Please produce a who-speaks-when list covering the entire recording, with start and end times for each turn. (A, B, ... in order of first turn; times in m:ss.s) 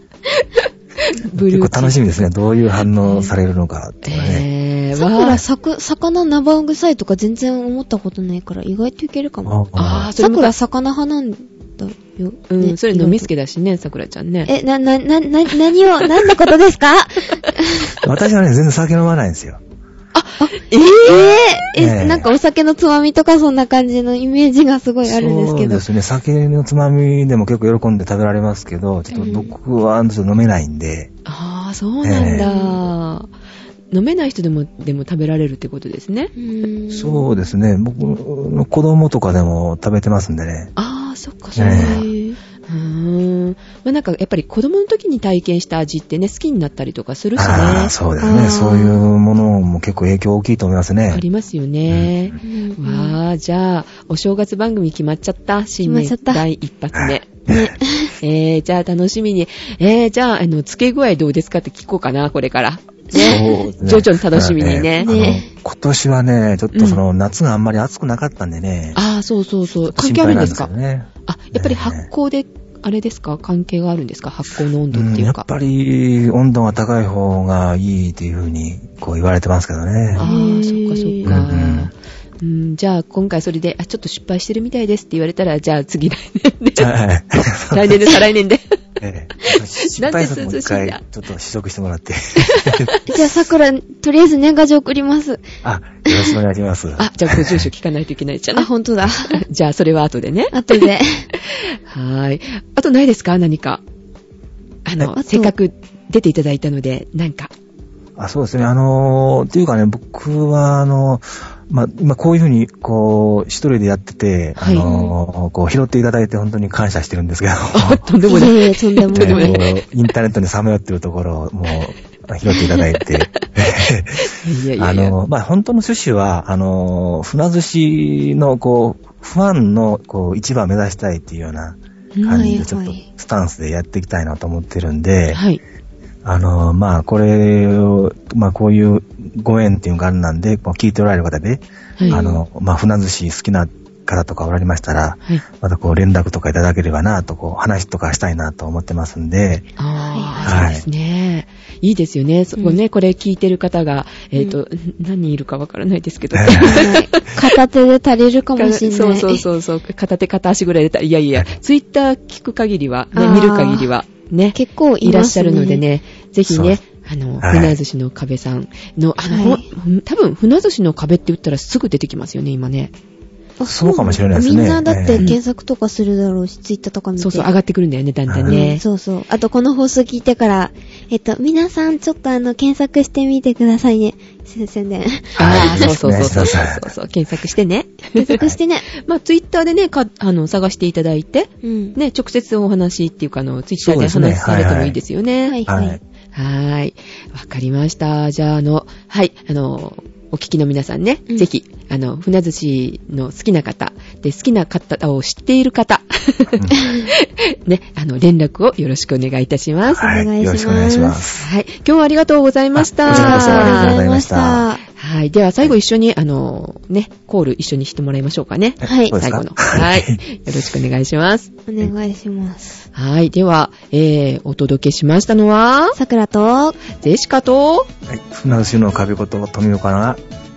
0:00.3-0:02.0 A
0:01.3-0:04.4 B
0:03.0-0:03.4 A
0:04.0-0:05.4 A
0:04.9-0:09.5 C
0:09.4-0:10.1 B
0:09.8-0:10.5 A
0:10.2-0:13.3 C
0:12.5-0:14.5 A
0:14.4-0:18.0 C
0:18.0-0:19.6 B
0:20.1-0:21.6 A
0:20.4-0:25.8 C
0:21.8-0:22.3 B
0:25.0-0:31.1 B
0:29.1-0:29.5 C
0:31.2-0:33.3 A
0:32.0-0:32.5 B
0:32.1-0:32.8 C
0:33.9-0:36.3 A
0:36.4-0:37.4 C
0:36.9-0:40.7 B
0:40.8-0:42.1 A
0:41.6-0:42.0 B
0:41.6-0:42.4 C
0:42.6-0:48.0 A
0:47.4-0:51.2 B
0:48.2-0:49.0 C
0:51.1-0:57.3 A
0:51.9-0:52.3 B
0:52.4-0:53.2 C
0:55.8-0:56.4 C
0:56.9-0:57.7 B
0:57.5-0:58.1 C
0:58.2-1:05.1 A
1:03.1-1:03.4 C
1:03.1-1:09.0 B
1:05.0-1:05.5 C
1:06.7-1:07.0 A
1:08.9-1:10.7 A
1:09.9-1:12.1 B
1:11.2-1:15.4 A
1:14.9-1:20.3 B
1:20.1-1:26.9 A
1:20.2-1:21.5 C
1:21.2-1:21.9 B
1:26.8-1:28.2 B
1:27.7-1:28.8 A
1:29.0-1:33.0 B
1:29.9-1:31.0 A
1:32.4-1:33.0 A
1:33.1-1:35.4 C
1:35.6-1:37.6 B
1:36.1-1:36.3 C
1:37.0-1:38.7 A
1:38.5-1:39.4 C
1:39.3-1:43.8 A
1:40.5-1:41.3 C
1:44.8-1:47.5 A
1:45.1-1:45.5 C
1:48.2-1:58.0 B
1:54.6-1:54.9 A
1:54.8-1:55.2 C
1:57.7-1:59.7 A
1:58.2-1:59.7 C
1:59.1-2:15.4 B
2:02.5-2:03.0 A
2:04.3-2:05.2 A
2:12.1-2:12.6 A
2:12.3-2:13.0 C
2:15.3-2:15.6 A
2:16.2-2:29.7 B
2:22.0-2:22.4 C
2:29.8-2:37.5 A
2:30.1-2:30.7 C
2:30.4-2:30.8 B
2:36.3-2:36.9 B
2:36.5-2:39.5 C
2:38.6-2:52.9 A
2:43.1-2:43.9 C
2:44.5-2:45.8 C
2:46.5-2:46.8 B
2:47.4-2:47.8 B
2:49.3-2:49.6 C
2:53.6-2:57.5 C
2:53.6-2:55.3 B
2:57.2-2:58.8 A
2:58.3-2:58.6 B
2:58.5-3:06.5 C
3:05.3-3:08.4 A
3:05.4-3:06.9 B
3:08.1-3:08.8 C
3:08.9-3:15.6 A
3:11.6-3:12.0 C
3:13.8-3:15.0 B
3:15.4-3:16.0 C
3:15.7-3:16.0 B
3:16.3-3:30.2 A
3:26.7-3:27.1 C
3:29.8-3:31.5 B
3:30.0-3:31.2 C
3:31.4-3:34.0 A
3:32.8-3:34.7 B
3:33.0-3:34.8 C
3:34.9-3:41.5 A
3:38.8-3:39.2 C
3:38.8-3:40.2 B
3:41.7-3:42.8 C
3:42.9-3:46.0 A
3:45.9-3:46.8 C
3:46.9-3:47.9 A
3:48.1-3:50.2 B